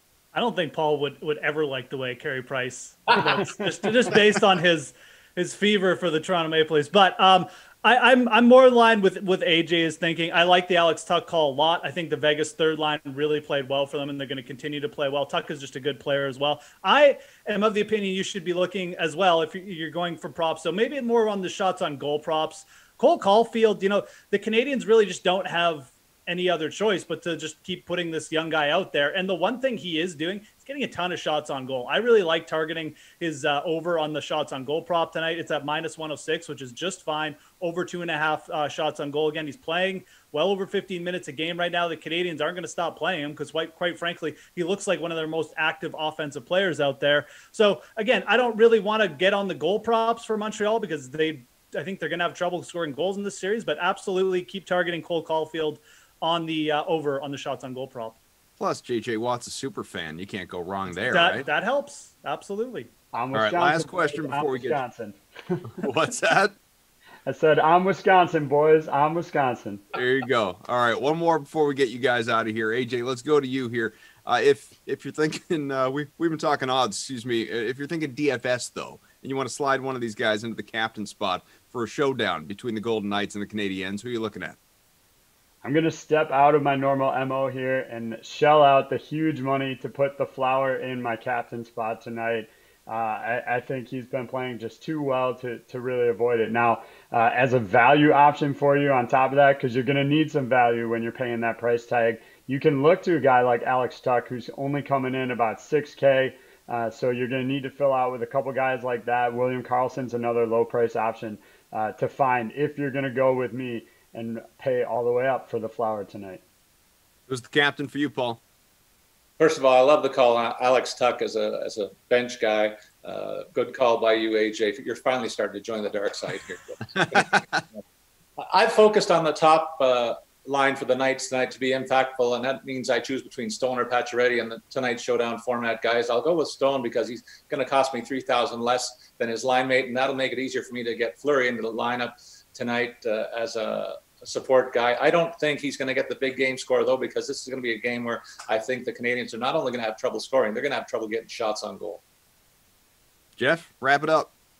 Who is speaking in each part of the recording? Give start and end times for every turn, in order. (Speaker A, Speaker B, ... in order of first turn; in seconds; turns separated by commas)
Speaker A: 0.3-58.2, Speaker B: 58.6-61.5, Speaker A: 61.0-62.9, Speaker C: 63.1-65.8, Speaker B: 63.3-64.8, Speaker B: 65.8-66.5, Speaker C: 67.2-69.8, Speaker B: 69.9-84.6, Speaker C: 85.6-116.4, Speaker B: 117.3-118.4, Speaker D: 119.4-127.8, Speaker D: 128.4-152.0, Speaker B: 153.4-154.3